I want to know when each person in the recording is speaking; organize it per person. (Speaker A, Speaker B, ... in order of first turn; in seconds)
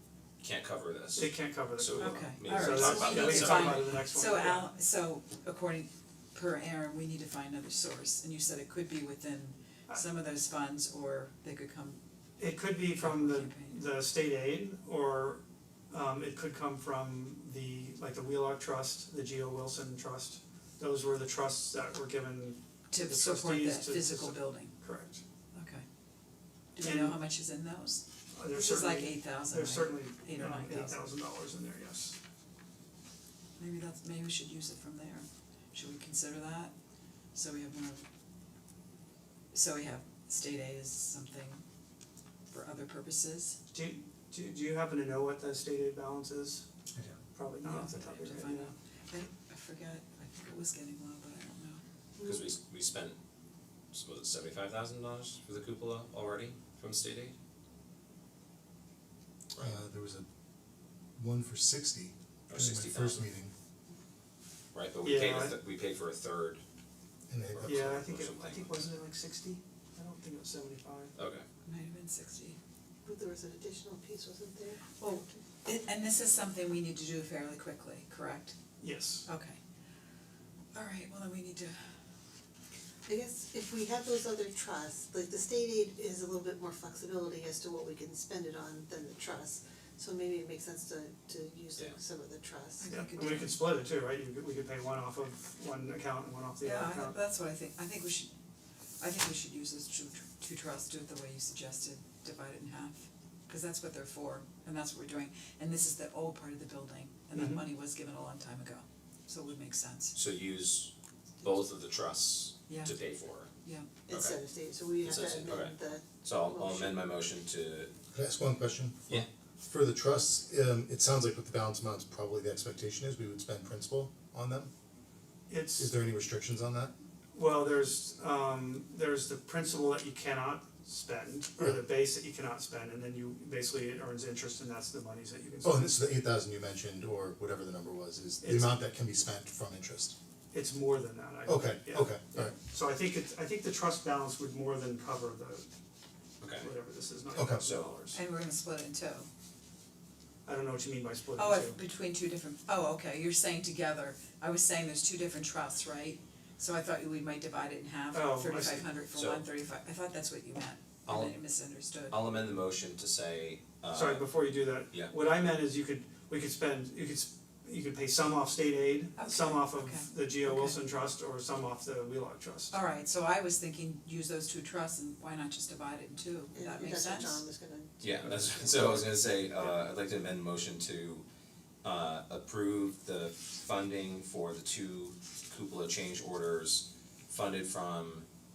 Speaker A: 0.4-4.0, 52.2-53.2, 53.9-57.3, 62.5-63.3, 64.7-66.6, 67.5-68.8, 71.2-71.5, 110.1-113.5, 114.1-114.4, 115.0-117.9, 146.4-146.7, 147.6-147.9, 159.1-159.4, 161.1-161.4, 162.1-164.3, 178.0-181.2, 181.8-188.2
Speaker B: 1.1-4.7, 12.4-25.2, 26.8-27.2, 28.3-32.1, 43.7-46.6, 47.3-48.7, 65.0-65.6, 67.6-71.1, 78.8-79.3, 92.9-97.2, 107.3-107.7, 125.5-125.9, 127.3-135.9, 138.4-138.8, 140.5-145.7, 146.5-148.2, 150.4-151.8, 158.1-158.9, 163.9-172.8
Speaker C: 2.0-12.0, 13.0-13.8, 22.9-24.7, 25.5-25.8, 26.7-31.0, 33.6-36.7, 37.3-38.0, 39.5-41.6, 42.5-43.6, 47.6-51.8, 71.6-72.6, 75.0-78.5, 79.2-79.6, 80.7-81.8, 92.8-93.5, 96.6-98.3, 99.0-110.2, 112.7-112.9, 148.1-149.3, 151.3-162.2, 169.2-170.8, 172.7-177.4
Speaker D: 52.2-52.5, 73.0-75.3, 83.0-92.9, 114.1-117.0, 176.5-179.1
Speaker E: 59.6-60.3, 61.2-63.5, 67.3-67.8, 118.1-124.7, 125.8-126.9, 135.6-140.1, 141.4-142.5, 147.3-147.7